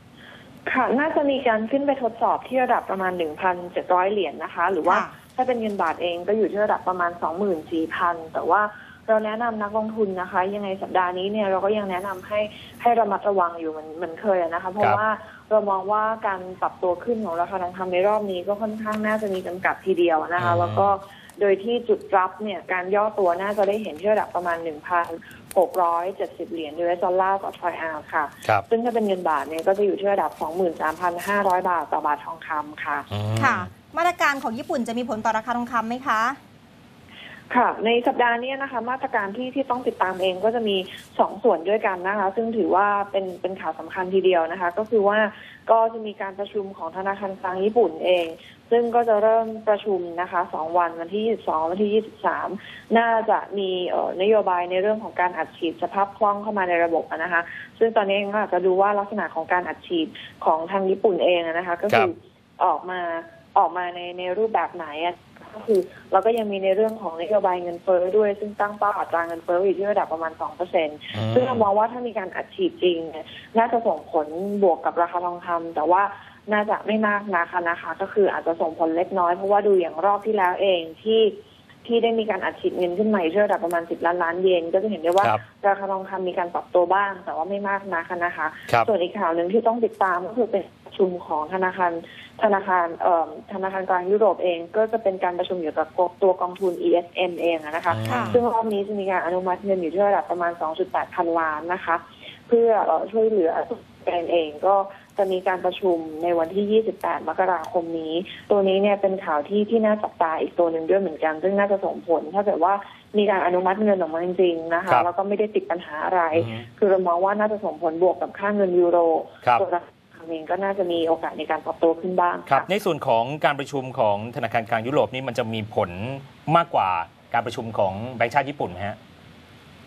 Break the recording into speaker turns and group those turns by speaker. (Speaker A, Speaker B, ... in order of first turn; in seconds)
Speaker A: 0.7-33.1, 37.5-81.3, 81.8-122.7
Speaker B: 4.8-5.2, 33.4-36.4, 98.0-98.4
Speaker C: 20.4-20.9, 33.1-33.7, 71.1-71.7, 85.2-85.4, 97.9-98.4, 116.3-116.7, 122.5-129.0